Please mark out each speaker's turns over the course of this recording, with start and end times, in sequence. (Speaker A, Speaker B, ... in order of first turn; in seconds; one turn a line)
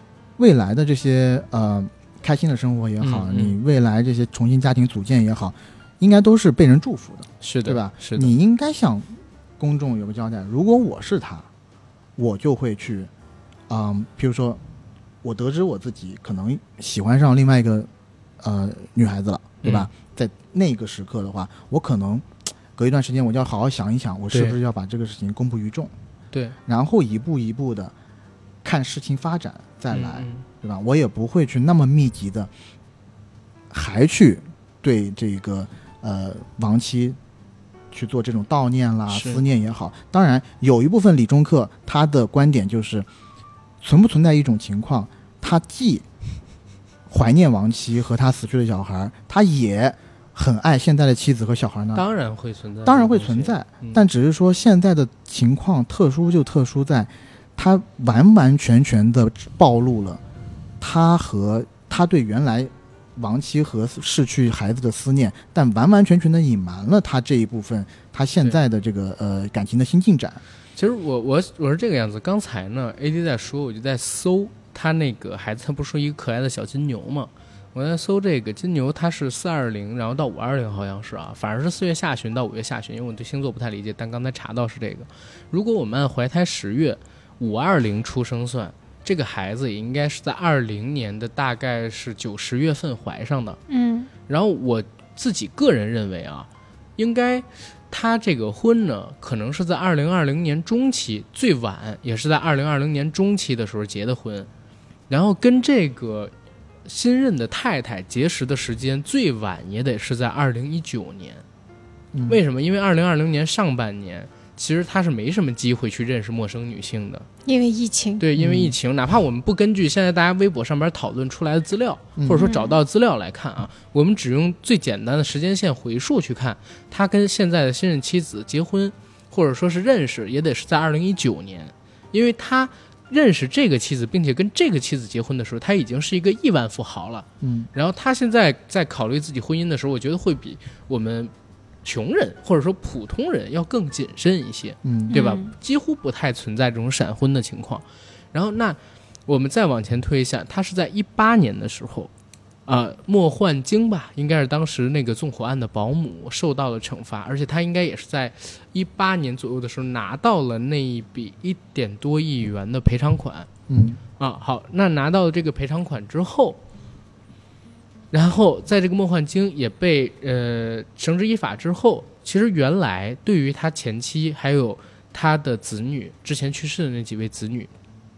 Speaker A: 0.4-11.4
Speaker B: 3.0-3.5
Speaker B: 7.4-8.3
Speaker A: 12.2-13.1
Speaker A: 13.7-14.6
Speaker A: 15.2-17.9
Speaker A: 18.4-25.9
Speaker B: 19.6-19.9
Speaker B: 24.3-24.6
Speaker A: 26.7-27.9
Speaker A: 28.6-32.5
Speaker B: 29.9-30.4
Speaker A: 33.7-37.2
Speaker A: 37.9-43.0
Speaker B: 39.1-39.4
Speaker A: 43.8-46.0
Speaker A: 47.1-52.0
Speaker B: 51.9-54.0
Speaker A: 52.8-60.2
Speaker A: 60.8-70.4
Speaker B: 70.8-93.6
Speaker C: 93.7-94.1
Speaker B: 94.3-104.5
Speaker B: 105.1-106.3
Speaker B: 106.8-111.4
Speaker A: 112.1-112.4
Speaker B: 112.3-117.3
Speaker C: 117.5-118.2
Speaker B: 118.2-141.3
Speaker A: 118.3-118.7
Speaker A: 122.2-122.4
Speaker C: 122.4-122.8
Speaker A: 137.4-137.7
Speaker B: 141.8-152.1
Speaker A: 144.8-145.2
Speaker C: 145.1-145.5
Speaker B: 152.7-163.5
Speaker A: 163.7-164.0
Speaker B: 164.2-166.6
Speaker B: 168.1-177.7